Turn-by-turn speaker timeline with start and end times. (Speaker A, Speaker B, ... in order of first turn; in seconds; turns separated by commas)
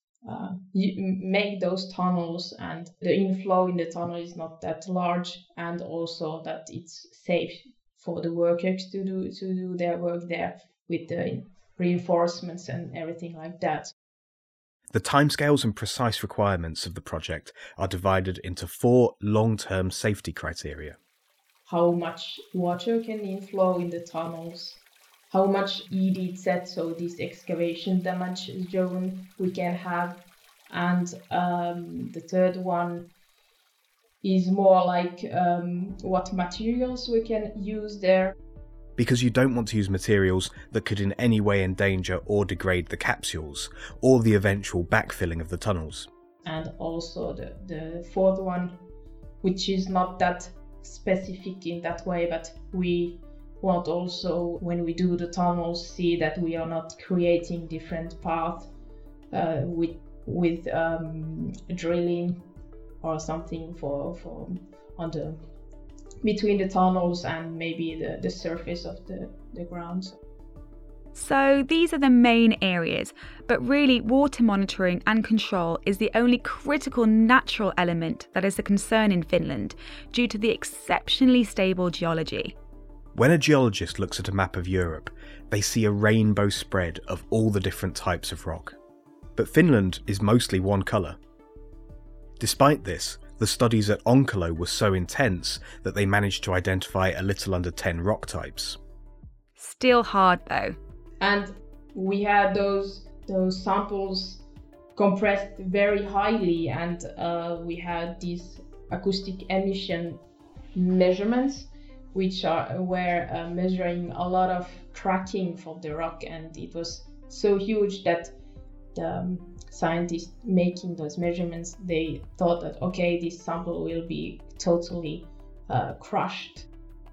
Speaker A: 0.2-13.9, Speaker B: 14.9-21.0, Speaker A: 21.7-33.1, Speaker A: 34.2-38.3, Speaker B: 39.0-46.1, Speaker A: 46.4-48.8, Speaker A: 49.4-58.7, Speaker A: 59.3-62.4, Speaker A: 63.0-65.4, Speaker A: 66.2-70.2, Speaker C: 71.1-82.5, Speaker B: 83.1-88.8, Speaker B: 89.4-91.2, Speaker B: 92.4-98.8, Speaker C: 99.6-100.8, Speaker A: 101.2-104.4, Speaker A: 104.9-110.2, Speaker A: 110.8-118.3, Speaker A: 118.9-126.7